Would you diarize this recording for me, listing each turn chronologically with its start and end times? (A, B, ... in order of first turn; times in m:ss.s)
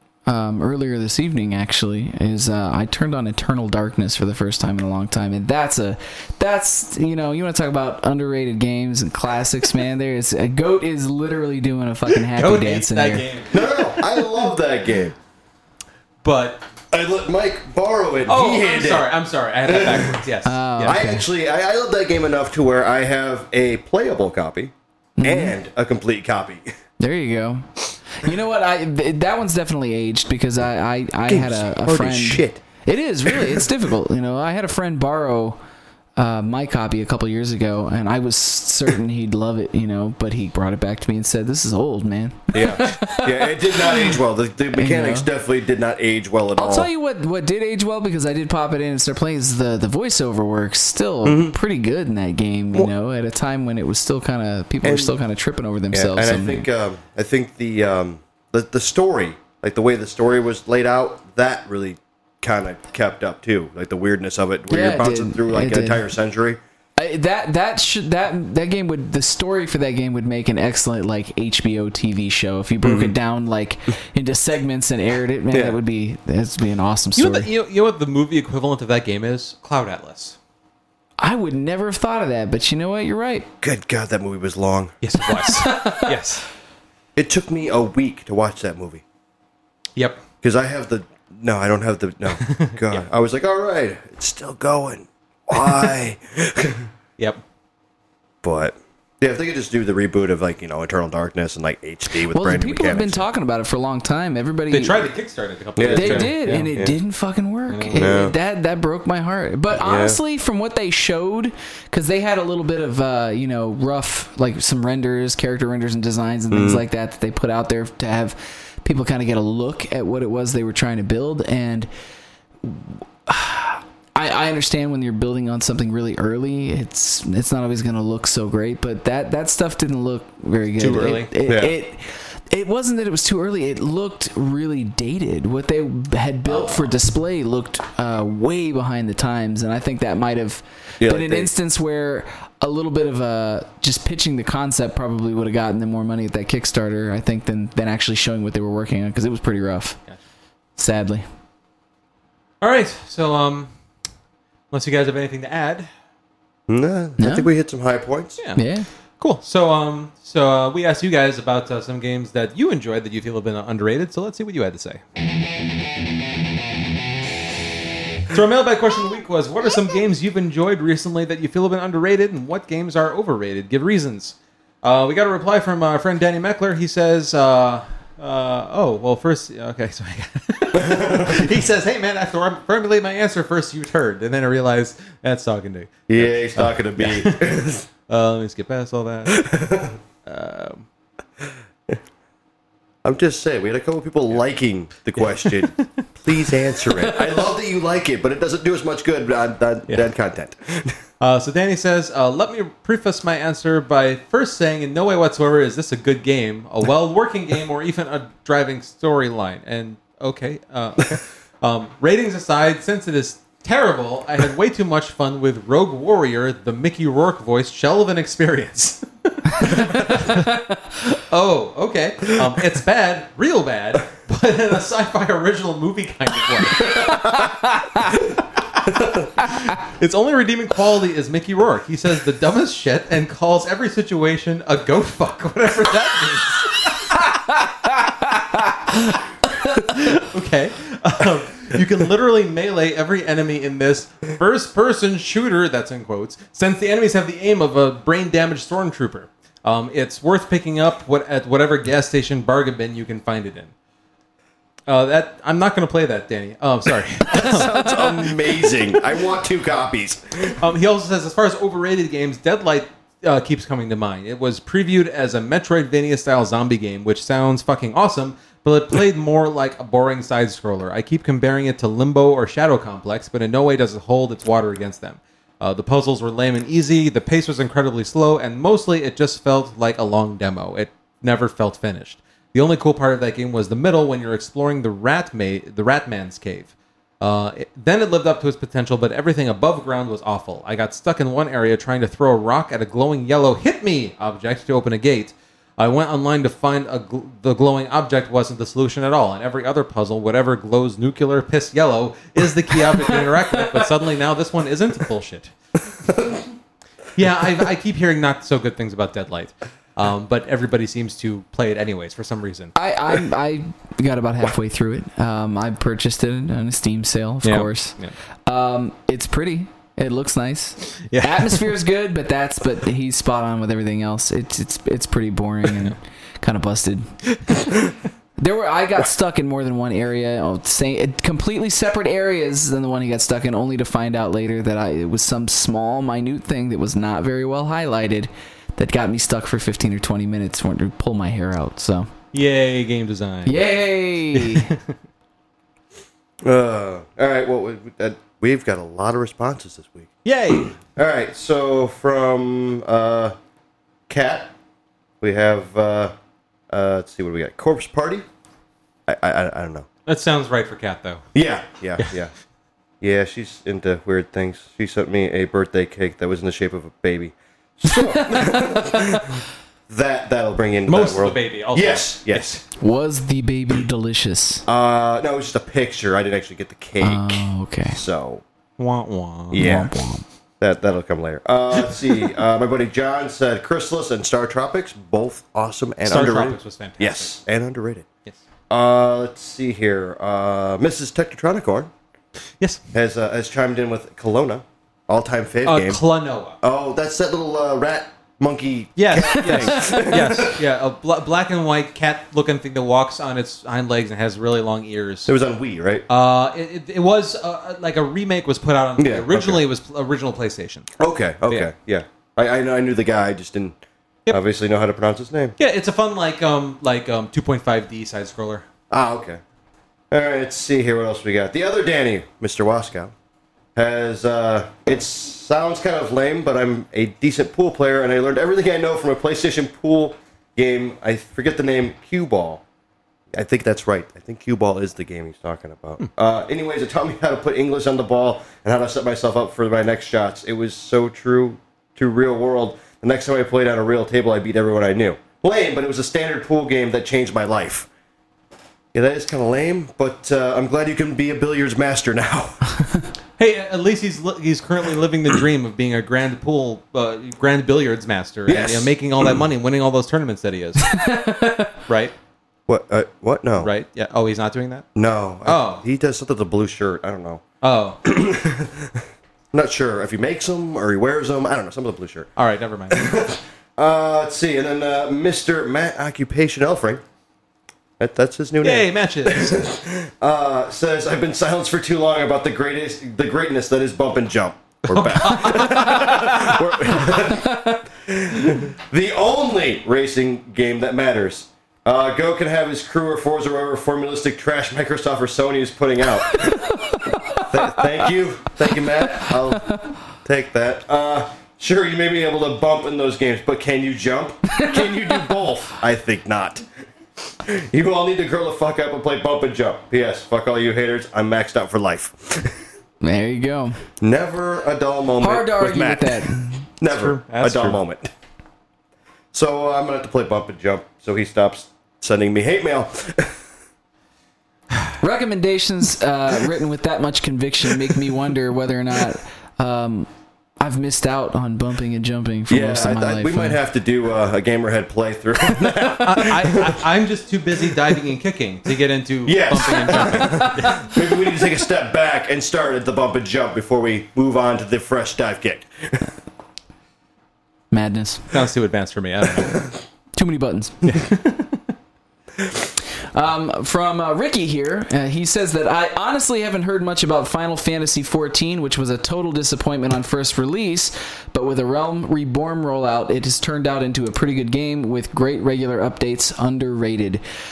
0:00.3-0:13.3 A
0:12.4-0:14.0 B
0:13.5-0:15.2 C
0:16.2-0:16.6 B
0:16.9-0:19.1 C
0:18.3-0:21.0 B
0:19.7-0:20.2 C
0:20.5-0:21.3 A
0:20.9-0:26.7 C
0:25.2-0:25.6 A
0:27.0-0:35.6 A
0:31.3-0:32.6 C
0:33.3-0:33.6 C
0:36.2-0:44.2 A
0:42.5-0:46.9 C
0:44.7-0:45.3 A
0:46.6-0:56.7 A
0:51.2-0:51.6 C
0:54.8-0:55.2 C
0:55.9-1:06.6 C
1:04.7-1:06.0 A
1:07.0-1:17.5 A
1:12.8-1:13.1 C
1:15.5-1:15.8 C
1:17.2-1:20.4 B
1:21.2-1:23.5 A
1:23.6-1:24.9 C
1:25.0-1:26.4 B
1:25.3-1:26.1 A
1:27.2-1:29.0 C
1:30.0-1:30.2 B
1:30.4-1:36.9 C
1:32.4-1:33.0 B
1:38.4-1:43.3 C
1:42.2-1:45.1 A
1:44.7-1:46.7 B
1:45.8-1:46.9 C
1:45.9-2:01.9 A
1:47.7-1:48.2 B
1:48.0-1:48.3 C
1:49.8-1:50.2 C
1:56.5-1:56.8 C
2:02.6-2:30.0 A
2:10.8-2:11.3 B
2:11.5-2:11.8 C
2:16.5-2:16.9 B
2:21.0-2:21.5 C
2:30.8-2:31.2 A
2:32.6-2:33.7 B
2:34.7-2:35.9 B
2:36.7-2:38.4 C
2:37.2-2:37.5 A
2:38.6-2:38.9 A
2:39.2-2:45.0 B
2:48.3-3:09.5 B
3:00.8-3:01.5 C
3:06.1-3:07.9 C
3:09.3-3:10.0 C
3:10.2-3:10.9 B
3:11.4-3:12.0 C
3:13.0-3:21.0 C
3:15.2-3:15.9 B
3:21.2-3:47.3 B
3:46.9-3:48.2 A
3:48.7-3:57.1 B
3:49.0-3:49.3 C
3:59.5-3:59.9 A
3:59.7-4:13.7 B
4:14.9-4:18.4 B
4:17.3-4:20.6 C
4:20.6-5:05.5 B
5:03.0-5:03.5 A
5:06.0-5:06.4 C
5:07.2-5:12.7 B
5:12.8-5:27.1 A
5:17.4-5:18.1 B
5:20.9-5:21.6 B
5:27.3-5:27.6 B
5:28.4-5:42.1 A
5:42.3-5:43.6 B
5:43.5-5:44.7 A
5:44.3-5:44.9 B
5:46.4-5:50.1 C
5:50.2-5:50.8 B
5:50.6-5:53.3 C
5:54.1-5:54.5 C
5:55.2-5:56.1 C
5:56.7-5:58.3 C
5:59.1-5:59.9 C
6:00.1-6:01.2 B
6:01.3-6:02.3 C
6:03.0-6:12.6 C
6:07.9-6:09.3 A
6:10.9-6:12.6 B
6:12.8-6:14.6 A
6:14.7-6:18.4 C
6:17.0-6:18.0 A
6:18.8-6:19.6 B
6:19.5-6:19.9 C
6:19.6-6:20.2 A
6:20.6-6:28.1 C
6:26.1-6:27.4 B
6:28.7-6:31.9 C
6:32.9-6:36.0 C
6:35.6-6:36.6 B
6:36.6-6:40.6 C
6:39.0-6:45.3 B
6:39.5-6:40.0 A
6:45.3-6:46.0 C
6:46.1-6:50.9 B
6:49.0-6:49.6 C
6:51.0-6:53.8 C
6:54.3-6:55.6 C
6:55.6-6:58.7 B
6:58.9-6:59.4 C
7:00.1-7:03.1 C
7:03.8-7:12.6 C
7:13.3-7:27.9 C
7:28.9-7:32.8 C
7:33.4-7:41.1 B
7:38.5-7:39.2 C
7:40.8-7:41.7 A
7:41.9-7:42.1 B
7:42.7-7:43.7 C
7:43.6-7:44.9 B
7:45.0-7:47.4 C
7:45.4-7:45.8 B
7:47.6-7:48.0 B
7:48.0-7:52.3 C
7:52.4-7:53.2 B
7:52.9-7:57.0 C
7:58.0-8:16.6 C
7:58.6-7:59.7 B
8:04.9-8:07.2 B
8:07.4-8:07.8 A
8:16.3-8:17.9 A
8:17.4-8:26.6 C
8:19.1-8:19.9 A
8:24.5-8:25.2 A
8:27.4-8:32.6 C
8:33.0-8:33.8 A
8:34.0-8:38.1 C
8:35.2-8:36.7 A
8:36.9-8:37.8 B
8:39.3-8:43.4 C
8:45.0-8:50.1 A
8:50.6-8:53.6 A
8:52.5-8:56.8 C
8:56.0-9:00.8 B
8:59.3-9:06.1 C
9:00.1-9:00.9 A
9:07.7-9:08.3 A
9:08.3-9:09.6 B
9:10.2-9:10.9 A
9:10.9-9:11.6 B
9:13.1-9:27.2 A